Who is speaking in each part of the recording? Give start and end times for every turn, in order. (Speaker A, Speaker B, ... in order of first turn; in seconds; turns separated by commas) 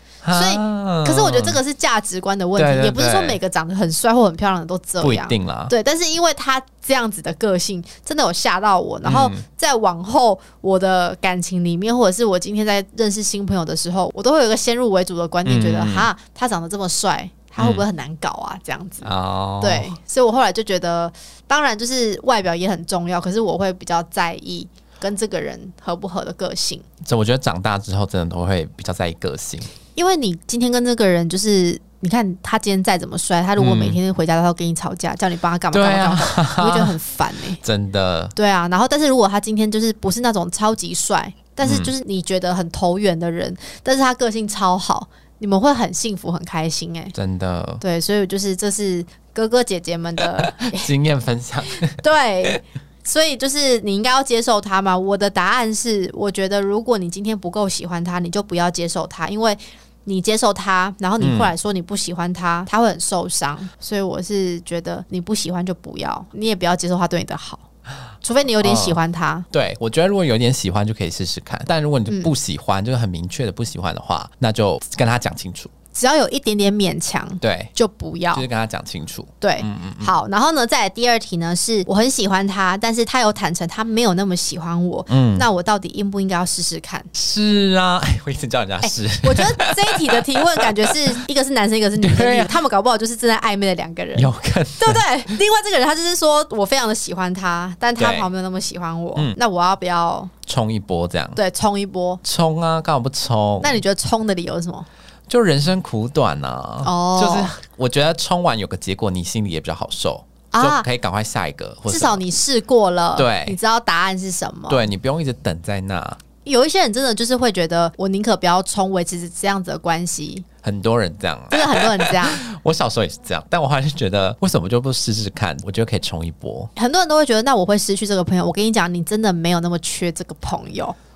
Speaker A: 0.2-1.6, Speaker B: 0.3-26.9, Speaker A: 2.6-3.4, Speaker A: 5.0-5.7, Speaker A: 9.0-9.4, Speaker A: 15.4-16.1, Speaker A: 17.6-17.9, Speaker A: 19.0-19.9, Speaker A: 27.0-29.7, Speaker B: 29.9-37.6, Speaker A: 33.6-34.0, Speaker A: 35.7-36.9, Speaker A: 37.6-38.3, Speaker B: 38.4-47.1, Speaker A: 41.6-41.9, Speaker A: 47.1-47.8, Speaker B: 47.8-50.9, Speaker A: 50.4-52.5, Speaker B: 52.0-67.7, Speaker A: 61.2-61.5, Speaker B: 68.2-69.5, Speaker A: 68.6-69.0, Speaker A: 69.5-75.7, Speaker B: 72.1-72.3, Speaker B: 75.9-78.5, Speaker A: 77.4-77.7, Speaker A: 78.3-80.1, Speaker B: 79.4-87.1, Speaker A: 85.1-85.5, Speaker A: 87.1-91.1, Speaker B: 88.8-100.3, Speaker A: 92.0-92.6, Speaker A: 94.1-95.3, Speaker A: 98.0-98.3, Speaker A: 100.5-101.4, Speaker B: 101.4-102.2, Speaker A: 102.2-103.8, Speaker B: 103.6-104.9, Speaker A: 105.3-112.2, Speaker B: 106.8-107.6, Speaker B: 110.5-110.9, Speaker B: 111.9-114.8, Speaker A: 113.2-113.6, Speaker A: 114.7-116.2, Speaker B: 116.4-120.5, Speaker A: 120.6-126.7, Speaker B: 121.5-122.4, Speaker B: 126.8-130.9